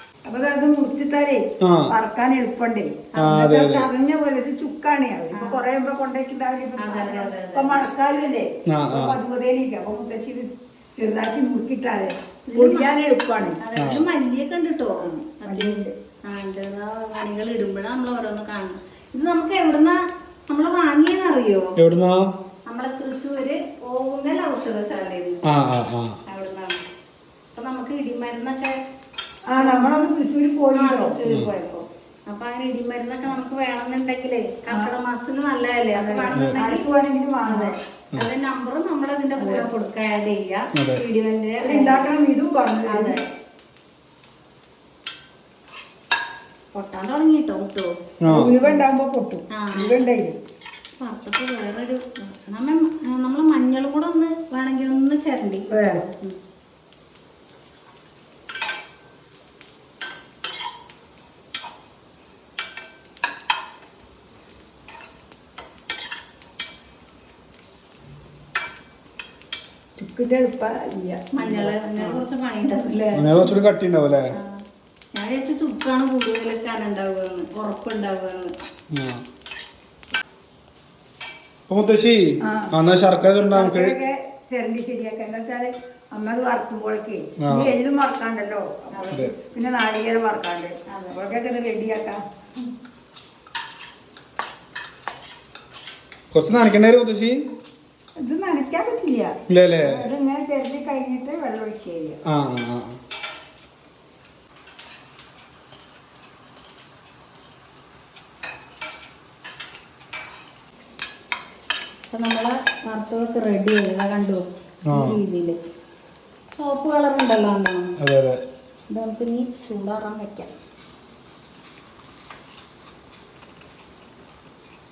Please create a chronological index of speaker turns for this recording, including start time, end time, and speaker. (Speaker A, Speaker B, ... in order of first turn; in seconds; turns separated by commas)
Speaker A: 0.2-13.6, Speaker B: 1.6-1.9, Speaker B: 3.1-3.9, Speaker C: 5.3-5.6, Speaker C: 6.8-7.9, Speaker B: 8.7-9.2, Speaker C: 12.5-12.9, Speaker C: 13.6-21.7, Speaker B: 13.8-14.1, Speaker A: 15.0-15.9, Speaker B: 21.8-22.3, Speaker C: 22.7-25.4, Speaker B: 25.5-26.2, Speaker C: 26.3-26.8, Speaker C: 27.5-28.7, Speaker A: 29.5-31.2, Speaker C: 29.6-30.1, Speaker C: 30.7-36.9, Speaker A: 35.9-37.7, Speaker C: 37.4-42.1, Speaker A: 39.4-39.6, Speaker B: 40.8-41.0, Speaker A: 41.6-43.2, Speaker C: 42.9-43.2, Speaker C: 46.7-48.8, Speaker B: 48.2-48.5, Speaker A: 48.3-50.4, Speaker C: 49.5-49.9, Speaker C: 51.0-56.4, Speaker A: 55.7-56.0, Speaker A: 70.0-73.0, Speaker C: 71.3-73.5, Speaker B: 73.1-74.2, Speaker C: 74.3-74.6, Speaker C: 75.1-78.5, Speaker B: 78.9-79.2, Speaker B: 81.7-84.0, Speaker A: 82.4-82.7, Speaker A: 83.4-92.2, Speaker B: 87.4-87.7, Speaker C: 88.9-89.2, Speaker C: 90.9-91.2, Speaker B: 96.3-97.4, Speaker A: 98.2-99.3, Speaker B: 99.5-100.0, Speaker A: 99.8-102.2, Speaker B: 102.3-103.0, Speaker C: 112.1-115.6, Speaker B: 114.9-115.2, Speaker C: 116.5-117.9, Speaker B: 118.0-118.4, Speaker C: 118.9-120.5